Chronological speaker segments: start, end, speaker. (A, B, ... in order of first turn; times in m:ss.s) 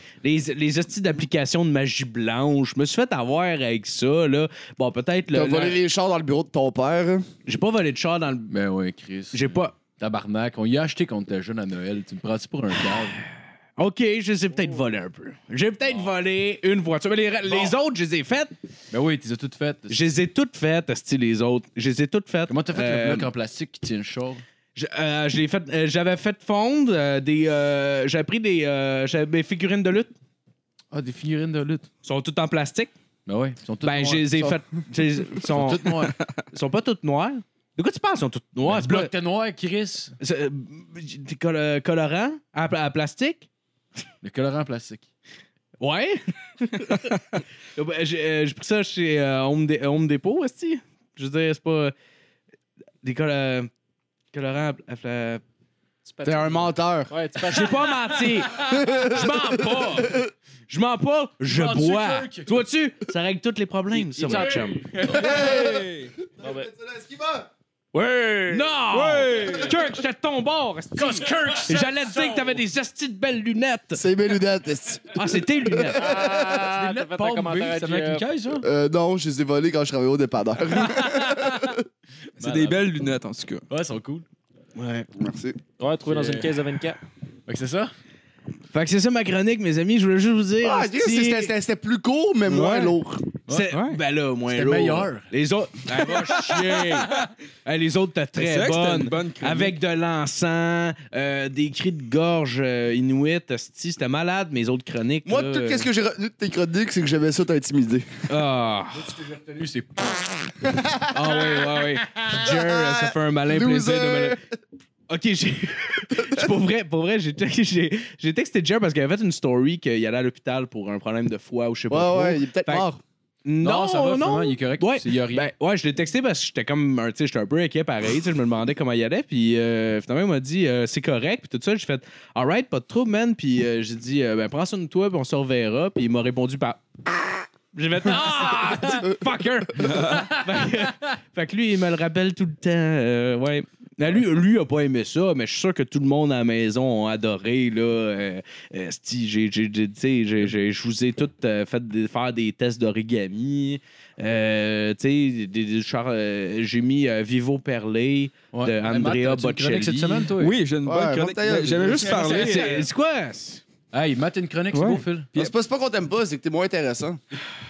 0:00.2-0:05.8 A
0:05.3-0:07.3 B
0:07.5-0:08.5 A
0:08.5-0:13.2 C
0:09.3-0:09.7 A
0:13.8-0:18.5 A
0:18.9-0:20.0 C
0:19.9-0:23.3 A
0:22.5-0:24.4 C
0:24.8-0:30.1 A
0:30.9-0:31.9 C
0:32.0-0:32.9 A
0:33.3-0:34.6 C
0:33.8-0:39.1 A
0:35.4-0:36.2 C
0:38.6-0:40.2 C
0:40.2-0:43.5 A
0:44.2-0:45.1 C
0:45.8-0:47.1 A
0:47.8-0:51.9 A
0:53.0-0:53.7 A
0:54.3-0:55.4 A
0:56.0-0:58.0 D
0:56.2-0:57.1 B
0:57.5-1:04.9 A
0:58.8-0:59.3 B
1:01.5-1:02.6 C
1:03.9-1:05.6 C
1:04.3-1:04.6 D
1:05.2-1:05.8 B
1:05.2-1:06.1 E
1:06.4-1:07.5 B
1:06.4-1:06.7 D
1:08.5-1:14.0 A
1:08.9-1:09.8 E
1:11.0-1:12.6 C
1:13.9-1:15.3 B
1:15.2-1:16.1 A
1:15.8-1:16.7 B
1:16.0-1:18.3 D
1:16.7-1:18.7 C
1:18.6-1:21.8 B
1:20.9-1:21.7 C
1:22.4-1:22.8 C
1:22.4-1:23.6 E
1:23.7-1:24.3 C
1:24.8-1:25.1 A
1:25.2-1:25.6 B
1:25.8-1:27.0 D
1:26.1-1:26.5 C
1:27.5-1:27.9 C
1:28.7-1:31.5 A
1:30.6-1:33.2 B
1:32.5-1:33.0 A
1:33.5-1:33.7 C
1:33.5-1:45.9 A
1:33.7-1:34.0 E
1:34.5-1:35.3 C
1:36.0-1:37.2 C
1:38.4-1:39.8 E
1:45.3-1:48.1 B
1:48.3-1:49.1 A
1:48.9-1:50.7 C
1:51.1-1:54.4 A
1:52.3-1:54.4 B
1:55.1-2:02.9 A
1:56.1-1:56.5 B
2:01.9-2:03.0 B
2:03.4-2:40.3 A
2:03.6-2:05.5 C
2:18.1-2:19.0 C
2:19.8-2:20.3 E
2:20.0-2:20.9 C
2:38.5-2:40.6 C
2:40.4-2:42.8 E
2:40.8-2:42.2 B
2:41.9-2:42.8 C
2:42.2-2:43.6 A
2:43.9-2:45.3 C
2:44.7-2:45.5 E
2:45.4-2:47.2 B